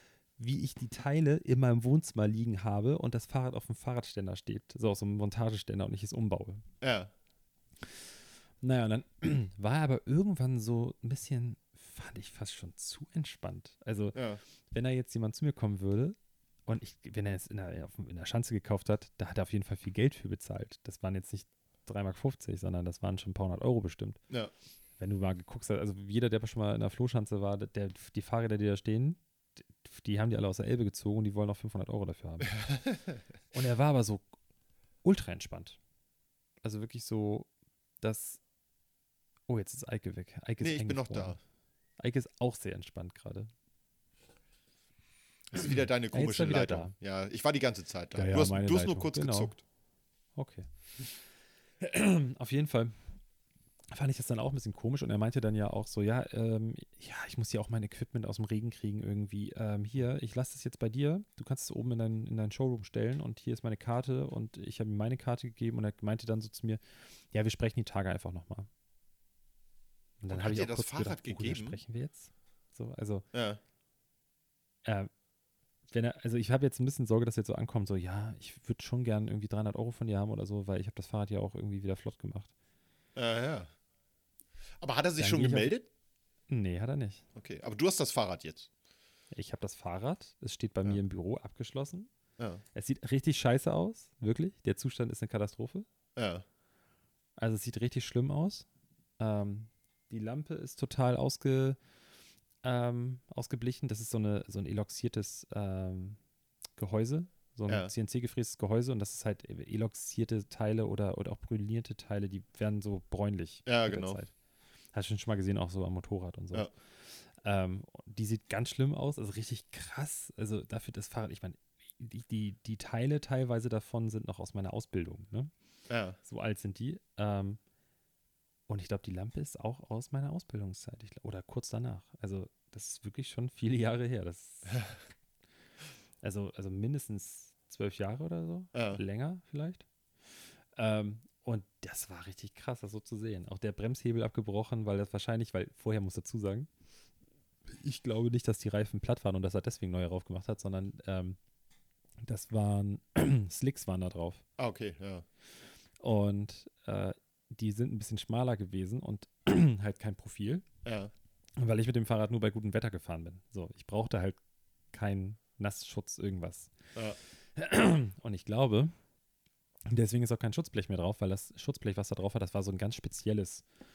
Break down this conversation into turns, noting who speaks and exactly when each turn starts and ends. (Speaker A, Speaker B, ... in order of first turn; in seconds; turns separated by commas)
Speaker A: 0.4-6.7, Speaker B: 6.8-7.1, Speaker A: 8.6-24.2, Speaker B: 14.1-14.4, Speaker A: 25.0-32.6, Speaker B: 32.6-33.2, Speaker A: 33.5-34.3, Speaker A: 35.0-35.8, Speaker A: 36.6-37.5, Speaker A: 38.0-38.4, Speaker A: 39.5-41.4, Speaker B: 40.6-41.4, Speaker A: 42.0-43.5, Speaker B: 45.5-49.6, Speaker A: 46.1-46.9, Speaker A: 48.1-49.6, Speaker A: 50.4-50.7, Speaker A: 51.8-53.1, Speaker A: 53.9-68.7, Speaker A: 70.2-73.2, Speaker B: 70.3-71.8, Speaker B: 73.3-73.6, Speaker A: 74.8-75.1, Speaker A: 75.9-82.5, Speaker B: 83.2-83.7, Speaker B: 84.8-85.9, Speaker A: 85.2-85.7, Speaker A: 86.5-87.2, Speaker B: 87.3-88.7, Speaker A: 89.3-92.1, Speaker A: 92.7-95.9, Speaker B: 96.2-96.5, Speaker A: 97.4-98.7, Speaker A: 99.2-101.8, Speaker A: 102.6-106.2, Speaker A: 106.8-114.3, Speaker B: 113.7-114.2, Speaker A: 114.9-125.5, Speaker B: 125.9-126.2, Speaker A: 126.2-127.6, Speaker A: 128.7-134.9, Speaker A: 136.2-139.8, Speaker B: 138.7-139.0, Speaker A: 140.8-146.7, Speaker A: 147.7-151.4, Speaker A: 152.2-154.4, Speaker B: 154.6-155.2, Speaker A: 156.0-160.7, Speaker B: 160.8-161.1, Speaker A: 161.6-164.4, Speaker A: 164.9-166.8, Speaker A: 167.6-168.9, Speaker A: 169.9-173.6